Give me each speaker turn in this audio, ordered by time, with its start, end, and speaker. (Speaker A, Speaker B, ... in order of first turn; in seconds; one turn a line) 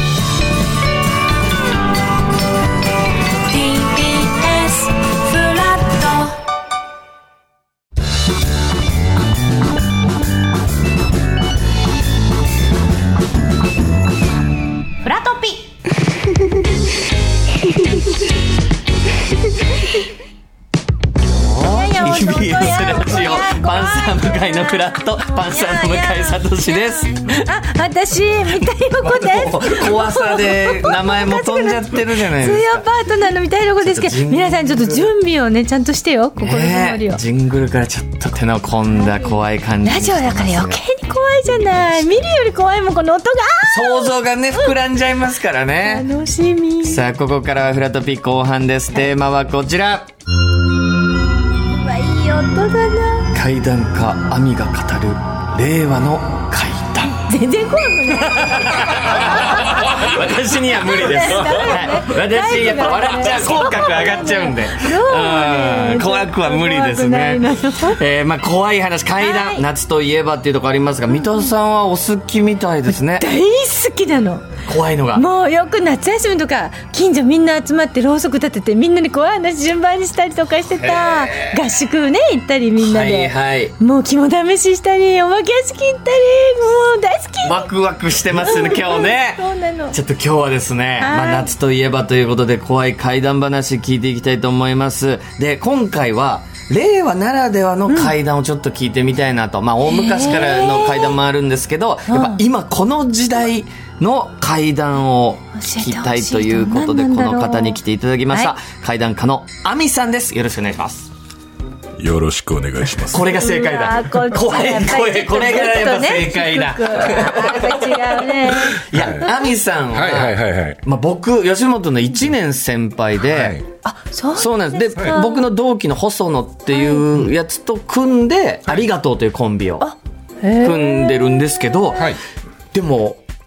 Speaker A: 3.5-6.3
Speaker A: 15.0-15.6
Speaker B: 21.3-27.4
Speaker A: 21.7-24.6
Speaker A: 25.3-26.6
Speaker A: 27.2-37.2
Speaker B: 29.0-32.9
Speaker B: 33.8-35.1
Speaker B: 36.4-40.8
Speaker A: 39.1-44.7
Speaker B: 43.7-46.0
Speaker A: 45.8-47.0
Speaker B: 46.8-50.1
Speaker A: 51.7-53.3
Speaker B: 53.3-57.1
Speaker A: 57.2-68.0
Speaker B: 58.2-73.2
Speaker A: 69.2-69.6
Speaker A: 73.1-74.4
Speaker B: 74.7-75.3
Speaker A: 75.1-87.7
Speaker B: 80.7-81.6
Speaker B: 82.8-83.7
Speaker B: 87.4-111.1
Speaker A: 88.4-90.0
Speaker A: 91.0-91.5
Speaker A: 97.9-98.1
Speaker A: 99.9-101.1
Speaker A: 102.1-102.4
Speaker A: 105.6-108.5
Speaker C: 112.0-113.2
Speaker B: 113.1-123.6
Speaker A: 113.1-118.9
Speaker C: 118.9-119.3
Speaker C: 119.9-120.8
Speaker C: 123.2-123.7
Speaker A: 123.8-125.4
Speaker B: 124.3-129.9
Speaker A: 126.7-127.0
Speaker A: 129.8-131.1
Speaker B: 130.6-132.2
Speaker C: 131.9-132.2
Speaker B: 132.7-133.2